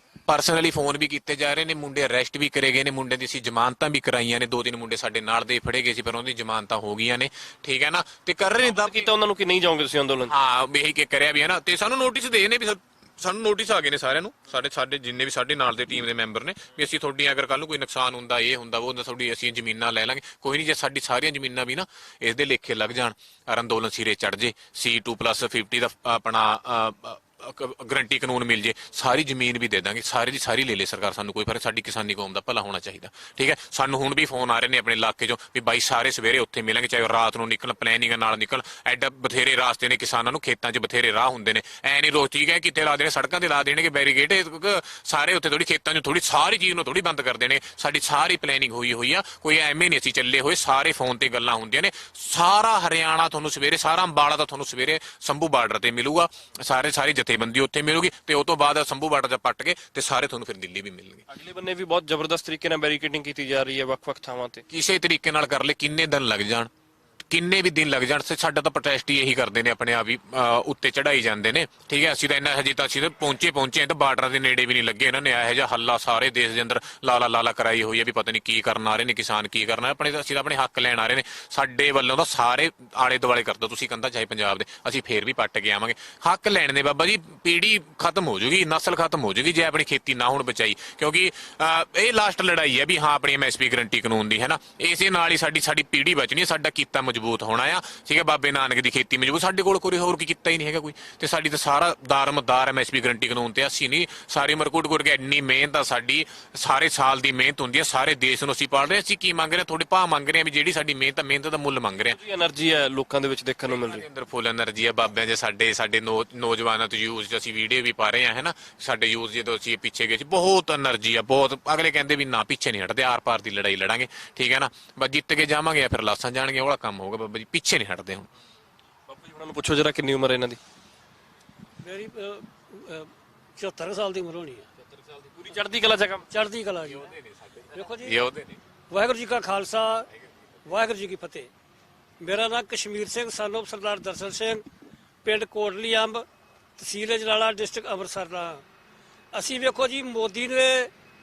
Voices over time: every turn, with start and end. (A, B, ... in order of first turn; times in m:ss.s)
0:00.3-0:09.1 A
0:08.6-0:10.3 B
0:10.3-1:01.2 A
1:01.3-1:04.6 B
1:04.7-1:06.7 A
1:07.3-1:52.2 A
1:52.1-1:54.0 B
1:53.7-2:08.3 A
2:09.1-2:10.6 B
2:11.8-2:14.6 C
2:15.2-2:16.3 B
2:16.3-2:17.0 C
2:17.0-2:18.6 A
2:17.7-2:18.1 C
2:18.9-2:20.1 C
2:20.7-2:21.5 C
2:22.2-2:24.6 C
2:25.2-2:26.2 C
2:26.8-2:28.6 C
2:29.3-2:30.9 C